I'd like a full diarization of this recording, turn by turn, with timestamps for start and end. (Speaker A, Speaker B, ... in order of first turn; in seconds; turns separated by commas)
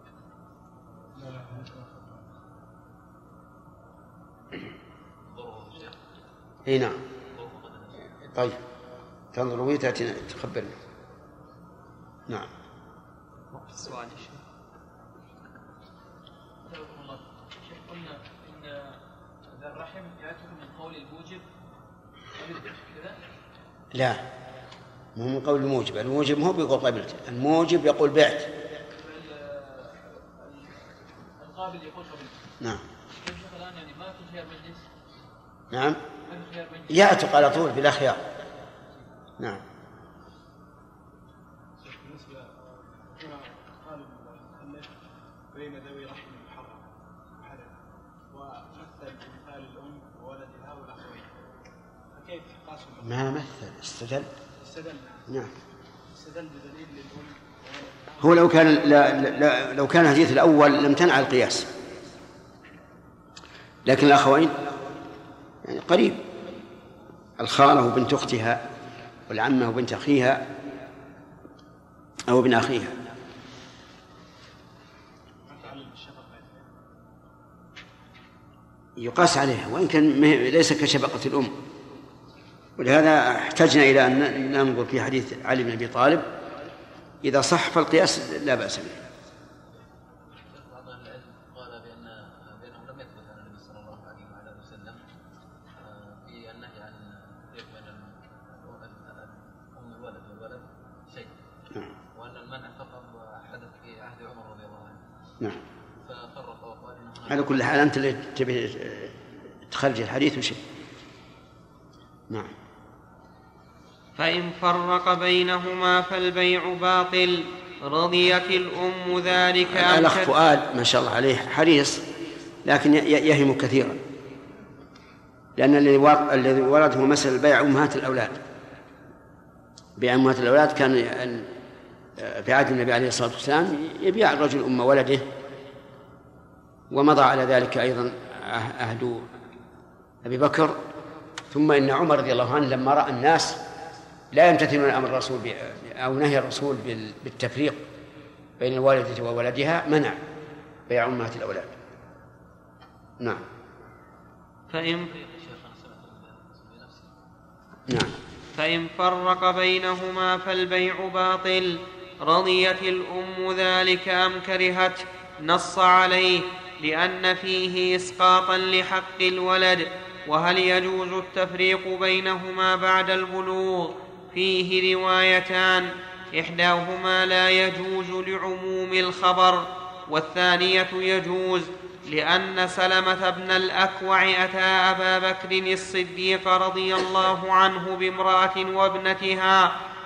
Speaker A: 1.2-1.7, Speaker B: 5.2-6.0, Speaker C: 6.7-7.0, Speaker B: 7.3-8.3, Speaker C: 9.3-10.8, Speaker D: 13.5-14.4, Speaker E: 16.7-19.0, Speaker E: 19.6-21.5, Speaker E: 22.4-23.2, Speaker C: 23.9-24.2, Speaker C: 25.2-28.5, Speaker E: 28.9-32.4, Speaker E: 33.2-34.9, Speaker C: 35.7-36.0, Speaker E: 36.2-37.5, Speaker C: 36.9-38.2, Speaker A: 41.8-44.9, Speaker A: 45.5-47.8, Speaker A: 48.3-51.4, Speaker A: 52.1-53.2, Speaker C: 53.0-54.3, Speaker A: 54.6-55.3, Speaker A: 56.1-58.6, Speaker C: 58.2-61.7, Speaker C: 63.9-64.6, Speaker C: 65.7-66.2, Speaker C: 67.4-68.6, Speaker C: 69.3-70.4, Speaker C: 72.3-73.0, Speaker A: 75.5-76.7, Speaker C: 79.0-81.5, Speaker C: 82.8-86.3, Speaker C: 87.2-89.0, Speaker B: 90.4-95.0, Speaker B: 95.8-101.3, Speaker B: 102.1-105.0, Speaker B: 106.0-107.9, Speaker C: 107.3-109.2, Speaker C: 109.7-110.6, Speaker D: 114.2-120.3, Speaker C: 119.7-122.0, Speaker C: 122.7-124.0, Speaker C: 125.6-128.4, Speaker C: 130.0-131.5, Speaker C: 132.2-135.3, Speaker C: 136.9-139.3, Speaker C: 140.2-140.8, Speaker C: 141.5-143.6, Speaker C: 144.3-147.8, Speaker C: 148.6-150.2, Speaker C: 150.9-151.7, Speaker D: 154.7-155.1, Speaker B: 154.7-157.2, Speaker C: 157.9-158.2, Speaker D: 158.6-189.7